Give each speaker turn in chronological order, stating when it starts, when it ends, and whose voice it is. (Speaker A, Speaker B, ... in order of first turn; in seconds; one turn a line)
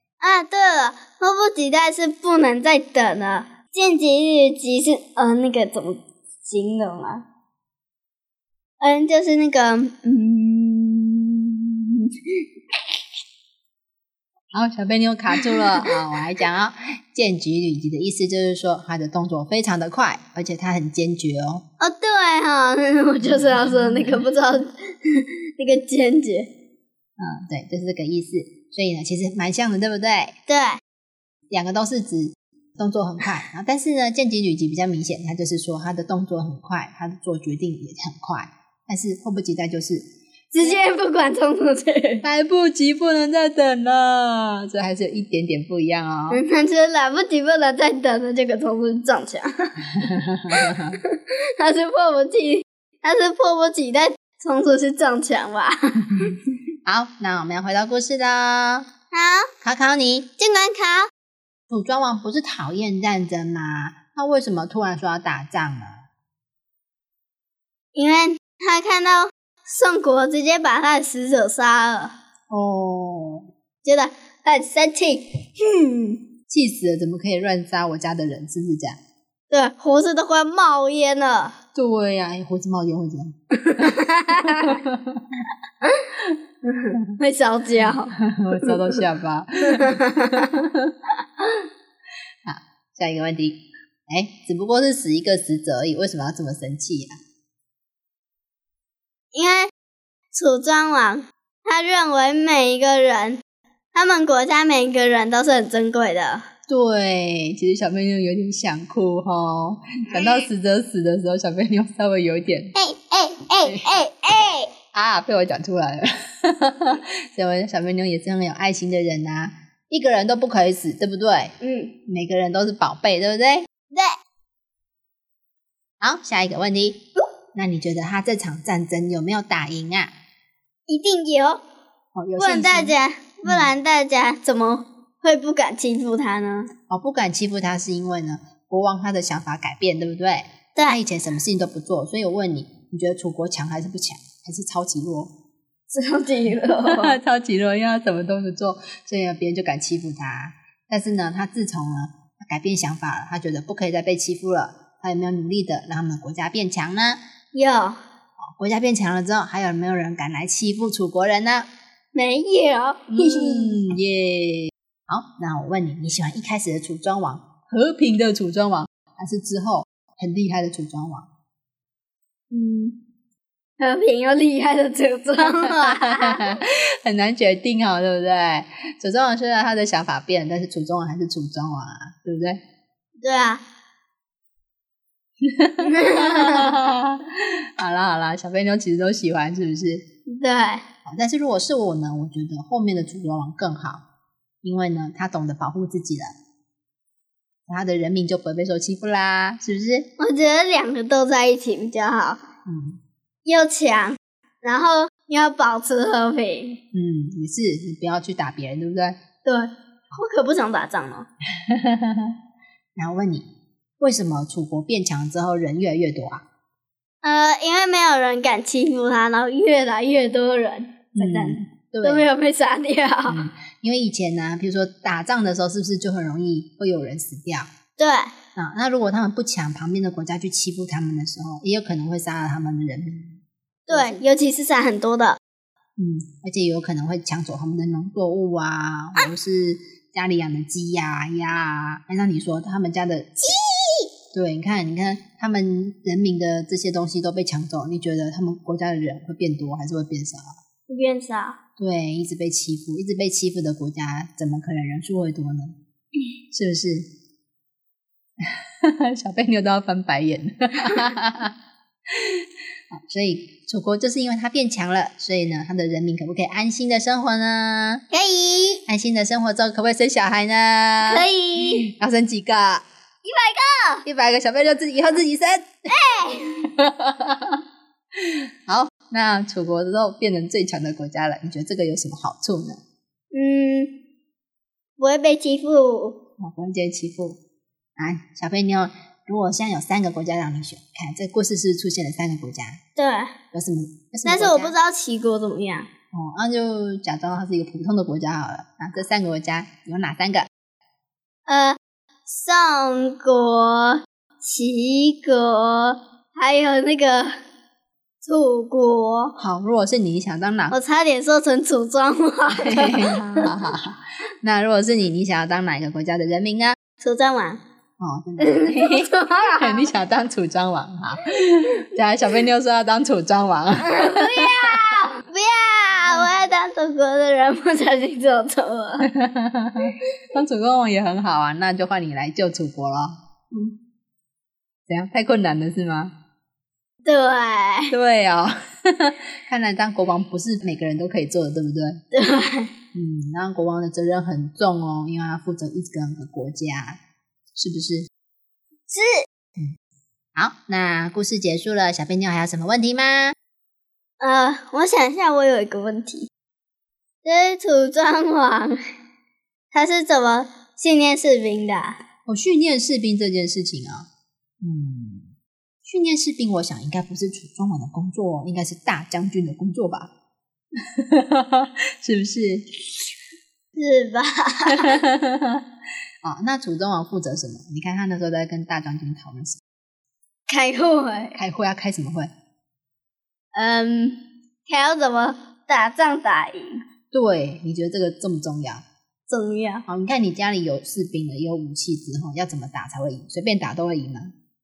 Speaker A: 0.2-7.2
Speaker A: 8.8-12.1
Speaker B: 14.5-21.6
Speaker A: 15.6-15.9
Speaker A: 21.8-26.5
Speaker B: 27.2-30.3
Speaker A: 30.5-30.8
Speaker B: 31.5-40.1
Speaker A: 40.5-42.2
Speaker B: 42.2-46.4
Speaker A: 46.3-56.4
Speaker B: 50.1-50.9
Speaker B: 56.8-58.9
Speaker A: 59.1-59.5
Speaker B: 59.6-60.3
Speaker A: 60.4-61.1
Speaker B: 61.7-66.0
Speaker A: 67.9-72.1
Speaker B: 72.5-73.5
Speaker A: 73.8-76.2
Speaker B: 76.5-79.0
Speaker A: 79.5-81.5
Speaker B: 81.7-83.9
Speaker A: 83.6-84.8
Speaker B: 84.6-85.2
Speaker A: 86.6-89.0
Speaker B: 88.1-90.0
Speaker A: 89.7-90.6
Speaker B: 92.4-97.2
Speaker A: 99.3-99.7
Speaker A: 100.3-103.4
Speaker A: 103.9-106.4
Speaker B: 106.7-112.7
Speaker A: 110.1-110.4
Speaker A: 112.7-114.7
Speaker B: 114.9-121.5
Speaker A: 121.6-121.9
Speaker B: 122.1-123.7
Speaker B: 126.0-130.1
Speaker A: 130.9-131.6
Speaker B: 132.1-132.9
Speaker A: 132.4-136.7
Speaker B: 136.9-145.3
Speaker A: 145.9-147.2
Speaker B: 146.8-157.2
Speaker A: 157.5-158.0
Speaker B: 158.6-161.7
Speaker A: 162.1-163.8
Speaker B: 163.1-171.3
Speaker A: 172.5-172.9
Speaker A: 173.8-176.5
Speaker B: 175.8-182.6
Speaker A: 183.2-183.6
Speaker B: 185.4-190.0
Speaker A: 185.8-186.8
Speaker A: 190.3-190.8
Speaker B: 191.0-194.0
Speaker B: 194.6-196.3
Speaker B: 197.7-200.1
Speaker A: 200.2-202.4
Speaker B: 202.7-203.0
Speaker A: 203.4-206.8
Speaker B: 206.9-209.2
Speaker A: 209.4-211.3
Speaker B: 211.6-212.3
Speaker B: 212.9-213.4
Speaker B: 214.0-216.4
Speaker A: 217.2-223.4
Speaker B: 221.2-222.3
Speaker B: 223.3-227.7
Speaker A: 228.0-228.3
Speaker B: 228.6-234.2
Speaker A: 233.9-235.4
Speaker B: 236.0-243.3
Speaker A: 243.6-244.0
Speaker B: 244.3-250.4
Speaker A: 250.9-251.6
Speaker B: 251.8-255.8
Speaker B: 256.5-257.1
Speaker B: 258.4-261.5
Speaker B: 262.1-268.0
Speaker A: 268.1-268.8
Speaker B: 268.9-272.8
Speaker A: 271.1-271.9
Speaker A: 273.2-274.0
Speaker B: 274.0-275.9
Speaker A: 275.9-276.6
Speaker B: 276.6-277.6
Speaker B: 278.1-282.8
Speaker A: 283.3-283.9
Speaker A: 285.0-286.2
Speaker B: 286.4-287.4
Speaker B: 288.0-292.8
Speaker A: 293.0-293.3
Speaker B: 293.5-294.7
Speaker A: 294.2-295.9
Speaker B: 296.1-300.5
Speaker A: 301.5-307.3
Speaker A: 308.2-309.3
Speaker B: 309.4-310.7
Speaker A: 310.7-313.5
Speaker B: 312.5-316.8
Speaker A: 317.0-317.6
Speaker B: 318.0-324.8
Speaker A: 318.4-319.9
Speaker A: 323.8-329.1
Speaker B: 329.0-333.1
Speaker B: 334.9-336.1
Speaker A: 337.0-337.9
Speaker B: 337.9-342.0
Speaker A: 342.1-342.7
Speaker B: 342.9-347.0
Speaker B: 347.6-348.1
Speaker A: 348.9-349.2
Speaker B: 350.3-353.3
Speaker A: 354.2-356.3
Speaker A: 357.2-358.8
Speaker A: 359.7-362.0
Speaker B: 362.2-364.1
Speaker B: 364.6-365.3
Speaker B: 365.8-370.1
Speaker B: 370.9-372.8
Speaker A: 373.7-375.0
Speaker B: 374.7-375.6
Speaker B: 376.2-379.6
Speaker A: 380.5-381.3
Speaker B: 381.3-382.3
Speaker A: 383.5-386.8
Speaker B: 387.1-388.8
Speaker A: 389.3-389.8
Speaker B: 389.9-394.3